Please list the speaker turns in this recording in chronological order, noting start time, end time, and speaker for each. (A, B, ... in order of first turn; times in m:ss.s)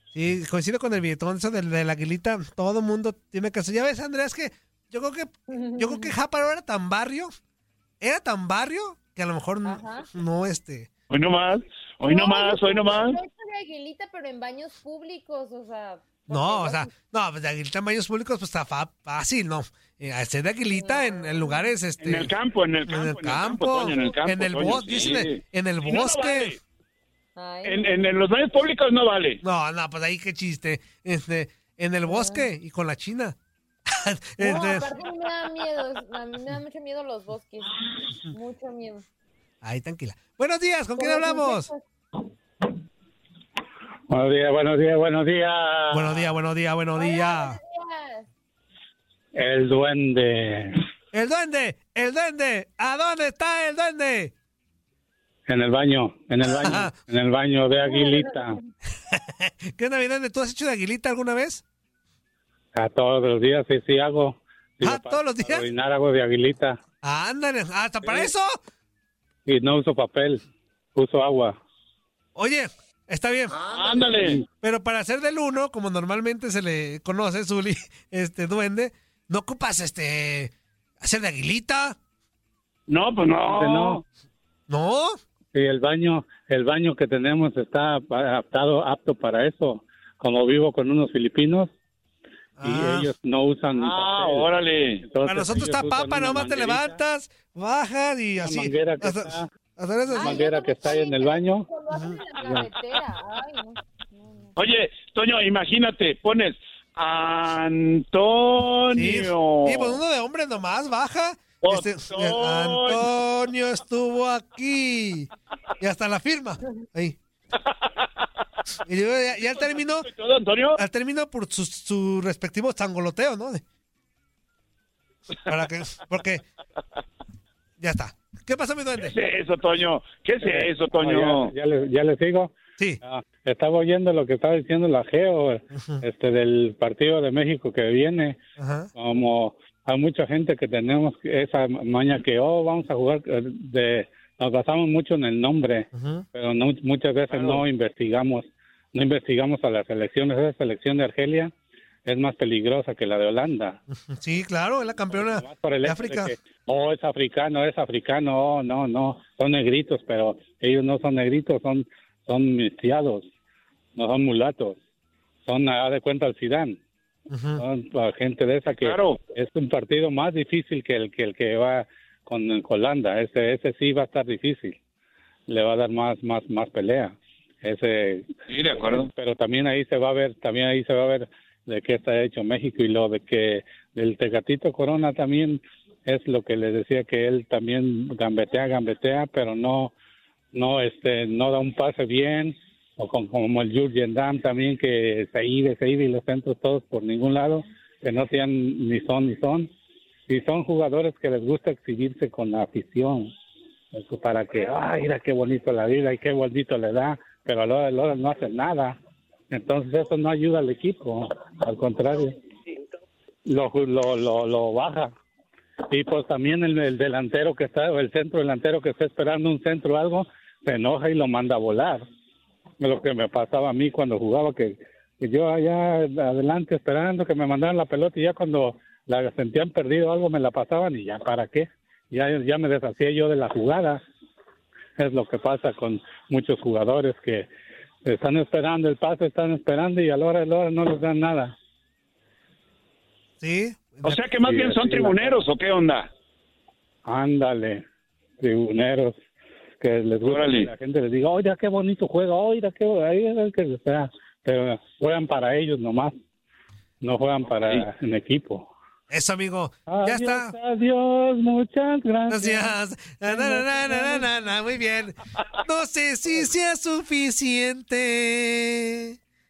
0:00.1-0:07.3 A
0:05.5-0:06.1 B
0:08.0-0:10.9 A
0:09.6-0:10.1 B
0:11.1-0:13.2 C
0:12.0-0:16.9 B
0:16.3-0:22.3 A
0:20.7-0:21.7 B
0:22.0-0:26.6 C
0:22.9-0:26.6 A
0:27.4-0:27.9 B
0:27.6-0:29.4 C
0:29.4-0:33.4 A
0:32.1-0:32.5 B
0:33.9-0:34.9 A
0:34.4-0:39.0 B
0:39.6-0:41.7 A
0:41.0-0:41.8 B
0:44.1-0:46.3 D
0:45.9-0:47.6 A
0:47.0-0:48.3 B
0:49.3-0:50.8 D
0:51.1-0:54.3 A
0:55.5-0:58.6 D
0:56.5-0:56.9 A
0:57.9-0:58.3 B
0:59.1-1:01.6 A
1:02.7-1:06.8 D
1:04.8-1:05.7 A
1:07.0-1:08.6 A
1:09.5-1:10.4 D
1:11.0-1:11.6 D
1:12.4-1:13.6 A
1:13.7-1:14.4 C
1:14.6-1:22.0 A
1:22.9-1:24.0 C
1:23.5-1:24.0 D
1:24.7-1:25.2 A
1:25.5-1:31.7 D
1:32.6-1:33.1 A
1:32.6-1:34.5 D
1:33.8-1:35.0 C
1:35.0-1:37.0 D
1:35.2-1:40.4 A
1:38.4-1:39.5 D
1:40.1-1:44.5 B
1:40.1-1:41.7 D
1:41.9-1:42.2 A
1:44.6-1:50.0 C
1:48.9-1:55.3 A
1:51.6-1:53.1 C
1:55.8-1:57.2 A
1:58.9-2:00.1 A
1:59.6-2:00.8 C
2:00.8-2:03.6 A
2:05.5-2:06.4 A
2:07.8-2:09.2 A
2:09.0-2:11.5 C
2:10.4-2:18.4 D
2:15.8-2:16.0 A
2:18.6-2:18.9 A
2:19.0-2:31.5 D
2:26.0-2:26.2 A
2:27.3-2:27.6 C
2:32.0-2:33.8 D
2:34.1-2:36.3 A
2:35.1-2:43.3 D
2:44.0-2:44.8 D
2:45.4-2:46.8 D
2:47.3-2:47.6 A
2:47.6-2:54.8 D
2:48.8-2:49.2 C
2:55.5-3:09.9 D
2:58.5-2:59.1 C
3:10.5-3:19.7 D
3:20.3-3:23.3 D
3:23.9-3:29.0 D
3:29.5-3:32.4 D
3:33.5-3:35.1 D
3:35.9-3:42.0 D
3:42.8-3:54.0 D
3:55.0-3:57.5 D
3:58.0-4:01.6 D
4:03.4-4:04.2 A
4:04.0-4:06.1 C
4:04.5-4:05.4 D
4:07.0-4:07.8 D
4:08.4-4:09.2 D
4:09.8-4:16.2 D
4:10.2-4:10.7 C
4:17.0-4:18.7 D
4:19.1-4:20.5 A
4:19.9-4:22.7 D
4:22.3-4:29.2 A
4:23.3-4:24.3 D